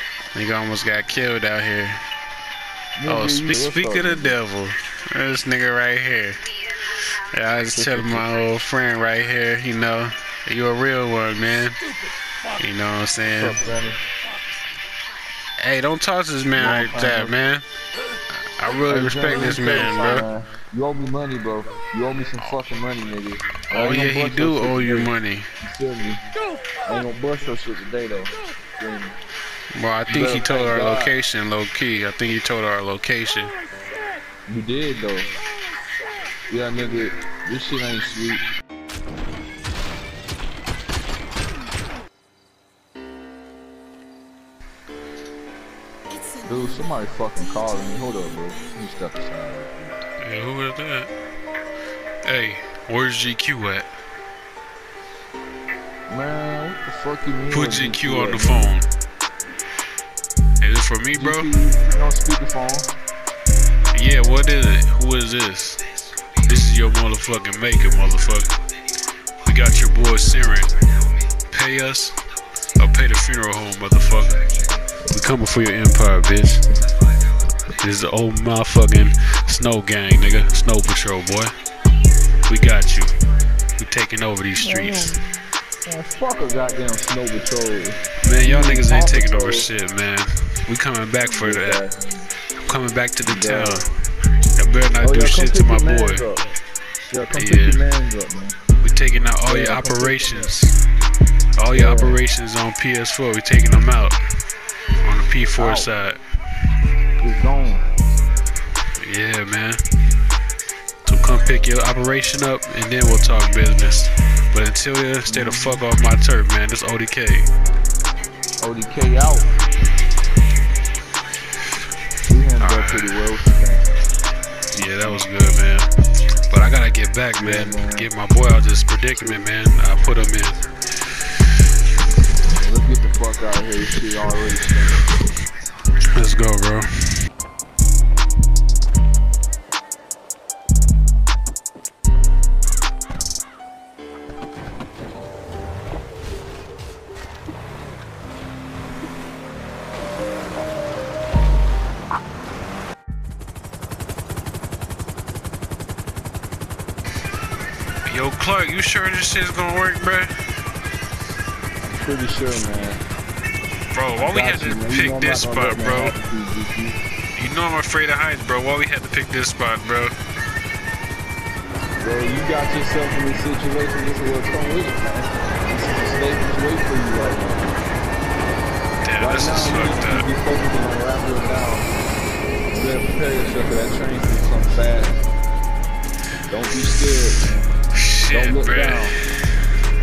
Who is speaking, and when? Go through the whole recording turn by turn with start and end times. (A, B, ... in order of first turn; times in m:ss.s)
0:00.3-0:02.0 A
0:03.0-0:04.4 B
0:03.1-0:11.8 A
0:07.7-0:08.2 B
0:12.6-0:13.6 A
0:13.3-0:14.0 B
0:15.6-0:17.7 A
0:16.6-0:17.4 B
0:18.3-0:20.3 A
0:18.9-0:26.2 B
0:23.7-0:25.5 A
0:26.8-0:29.2 B
0:29.7-0:33.6 A
0:30.1-0:31.1 B
0:34.5-0:35.3 B
0:36.5-0:38.4 B
0:46.4-0:49.7 B
0:50.2-0:51.1 A
0:52.2-0:53.9 A
0:56.1-0:58.8 B
0:57.5-0:58.9 A
1:00.6-1:01.5 A
1:01.1-1:02.9 B
1:03.9-1:05.8 A
1:06.4-1:08.5 A
1:09.4-1:10.7 A
1:11.5-1:12.2 A
1:12.8-1:14.4 A
1:15.1-1:16.6 A
1:17.8-1:21.5 A
1:22.5-1:23.1 A
1:23.8-1:25.2 A
1:24.6-1:25.2 B
1:25.8-1:29.7 B
1:28.2-1:31.8 A
1:31.3-1:32.0 B
1:32.6-1:33.9 A
1:33.2-1:33.8 B
1:34.6-1:36.2 A
1:35.0-1:36.6 B
1:37.1-1:38.6 B
1:37.3-1:37.8 A
1:38.8-1:40.8 A
1:39.5-1:40.6 B
1:41.6-1:44.2 A
1:41.7-1:42.2 B
1:45.0-1:46.2 A
1:45.6-1:45.9 B
1:47.2-1:47.9 B
1:49.0-1:49.8 A
1:51.0-1:57.5 A
1:55.3-1:55.8 B
1:58.6-1:59.5 B
2:02.3-2:03.9 B
2:02.6-2:03.4 A
2:04.7-2:05.9 A
2:06.5-2:10.7 A
2:07.4-2:08.1 B
2:12.5-2:15.1 B
2:16.1-2:17.2 A
2:38.0-2:40.3 A
2:41.9-2:43.0 B
2:43.9-2:46.2 A
2:44.2-2:47.0 B
2:47.4-2:50.2 A
2:52.0-2:57.7 B
2:59.0-3:00.3 A
2:59.2-3:01.9 B
3:02.7-3:05.2 B
3:06.5-3:07.7 B
3:07.9-3:09.2 A
3:08.3-3:09.2 B